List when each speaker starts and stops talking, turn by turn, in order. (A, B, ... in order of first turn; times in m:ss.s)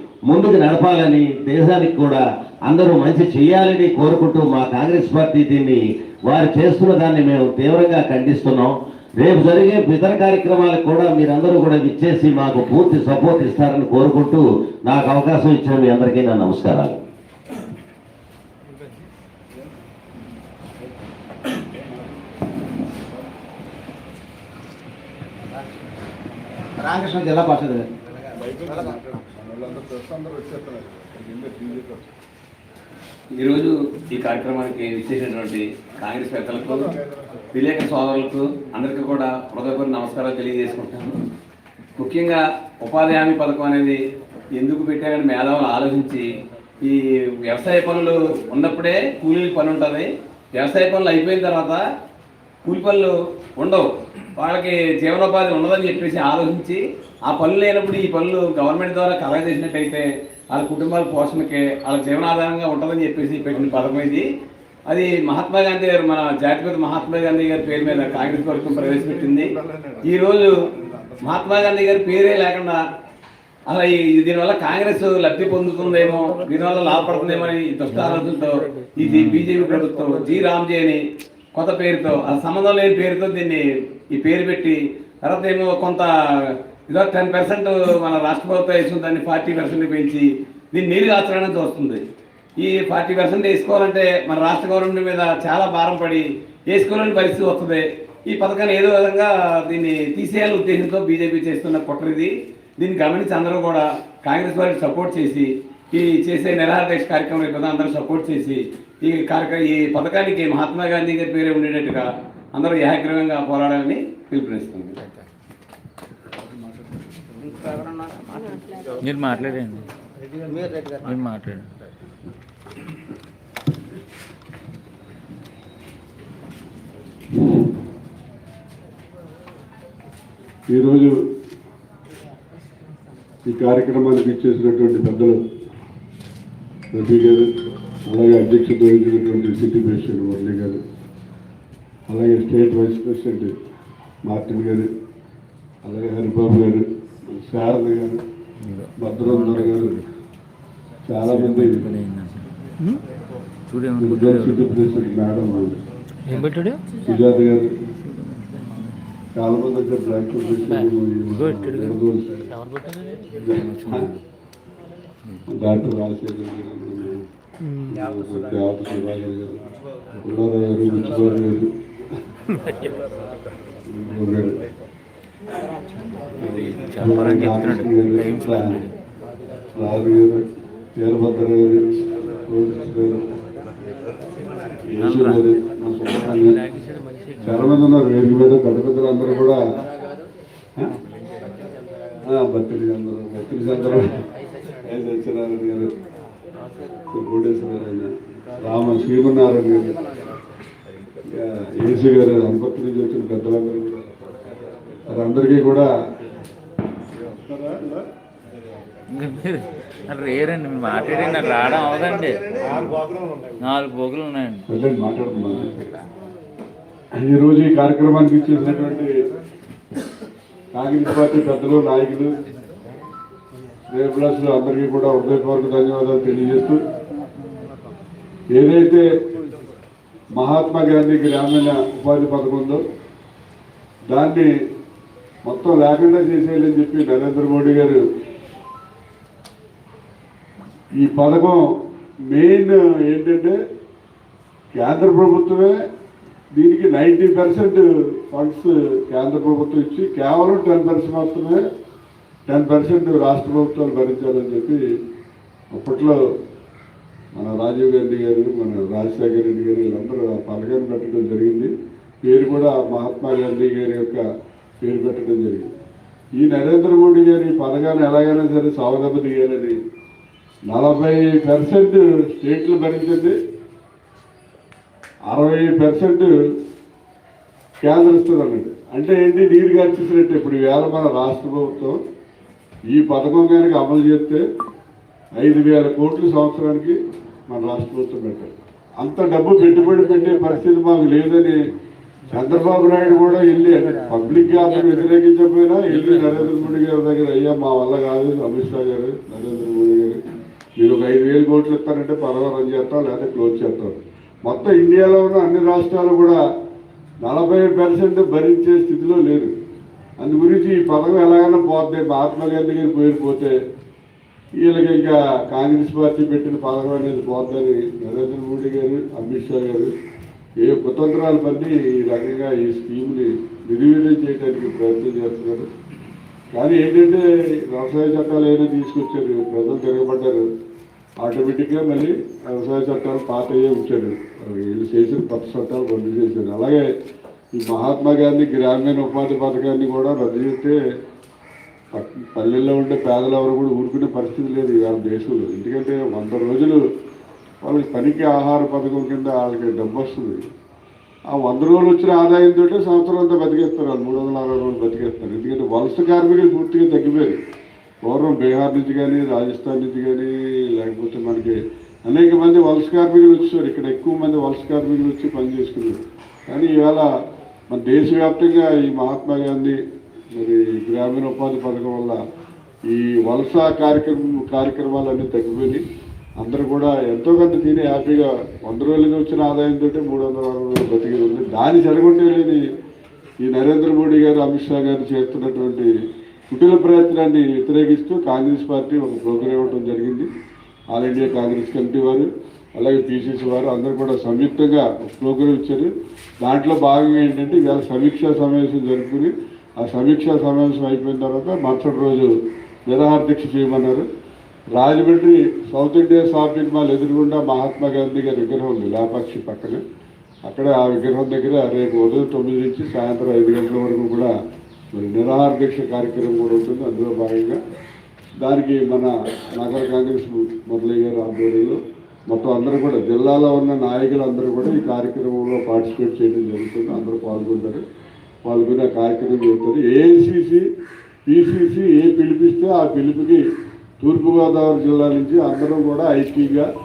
0:00.3-0:17.0 A
0:26.8-0:27.9 B
0:28.4-0:32.0 C
0:28.7-0:29.0 B
0:33.4-0:37.0 D
0:37.5-0:41.2 D
0:42.0-0:44.0 D
0:44.6-0:46.3 D
0:46.8-0:51.8 D
0:52.6-1:04.3 D
1:04.9-1:10.6 D
1:11.2-1:12.8 D
1:13.7-1:21.0 D
1:17.9-1:18.2 E
1:19.0-1:19.5 E
1:21.6-1:23.6 D
1:24.1-1:32.0 D
1:32.6-1:55.0 D
1:57.4-1:58.9 B
1:59.0-1:59.9 E
2:00.5-2:01.1 B
2:01.0-2:01.7 E
2:10.7-2:11.2 C
2:13.4-2:15.4 C
2:16.9-2:17.5 C
2:18.1-2:20.8 C
2:22.1-2:23.6 C
2:24.3-2:24.9 C
2:25.8-2:28.2 C
2:28.6-2:30.1 E
2:29.0-2:30.0 C
2:31.1-2:31.8 C
2:31.2-2:32.5 E
2:33.7-2:35.0 E
2:34.0-2:35.8 C
2:36.3-2:36.6 E
2:37.0-2:37.7 C
2:38.0-2:39.1 E
2:39.4-2:42.5 C
2:41.4-2:42.0 E
2:43.4-2:44.1 C
2:43.4-2:44.2 E
2:45.5-2:47.2 C
2:47.9-2:49.7 C
2:50.2-2:51.7 C
2:53.8-2:54.6 C
2:56.4-2:58.8 C
2:56.4-2:58.9 E
2:59.8-3:00.4 C
3:01.0-3:01.9 C
3:02.5-3:03.2 C
3:04.9-3:06.6 C
3:05.0-3:05.4 E
3:07.4-3:09.6 C
3:12.3-3:14.2 C
3:14.9-3:15.9 C
3:17.1-3:18.1 C
3:18.6-3:20.0 C
3:21.4-3:24.1 C
3:25.1-3:25.9 C
3:27.3-3:28.0 C
3:29.1-3:32.4 E
3:33.6-3:34.6 E
3:34.7-3:35.9 C
3:37.2-3:39.2 C
3:40.7-3:42.3 C
3:43.9-3:46.8 C
3:48.5-3:49.1 C
3:50.4-3:52.8 C
3:54.1-3:54.5 C
3:55.4-3:58.0 C
4:01.0-4:01.8 C
4:02.3-4:03.6 C
4:04.8-4:05.8 C
4:06.6-4:11.6 C
4:12.5-4:14.8 C
4:15.7-4:16.2 C
4:17.4-4:21.7 C
4:22.2-4:24.2 C
4:24.8-4:25.7 C
4:26.4-4:29.8 C
4:30.7-4:33.4 C
4:35.3-4:36.3 C
4:37.8-4:42.0 C
4:42.9-4:44.4 C
4:45.4-4:51.6 C
4:52.3-5:00.2 C
5:00.8-5:06.4 C
5:07.2-5:09.5 C
5:10.2-5:13.6 C
5:14.6-5:19.9 C
5:20.6-5:25.7 C
5:26.5-5:30.4 C
5:31.2-5:36.9 C
5:37.6-5:40.8 C
5:41.9-5:46.8 C
5:47.6-5:50.4 C
5:51.3-5:57.4 C
5:58.0-6:07.1 C
6:07.7-6:09.8 C
6:10.3-6:12.2 C
6:12.9-6:15.8 C
6:16.4-6:22.7 C
6:23.4-6:25.9 C
6:26.5-6:30.3 C
6:30.9-6:35.9 C
6:36.4-6:42.3 C
6:42.9-6:44.1 C
6:44.8-6:49.8 C
6:50.5-6:54.3 C
6:54.9-6:57.6 C
6:58.4-7:07.8 C
7:08.4-7:10.7 C
7:11.3-7:13.4 C
7:14.0-7:16.7 C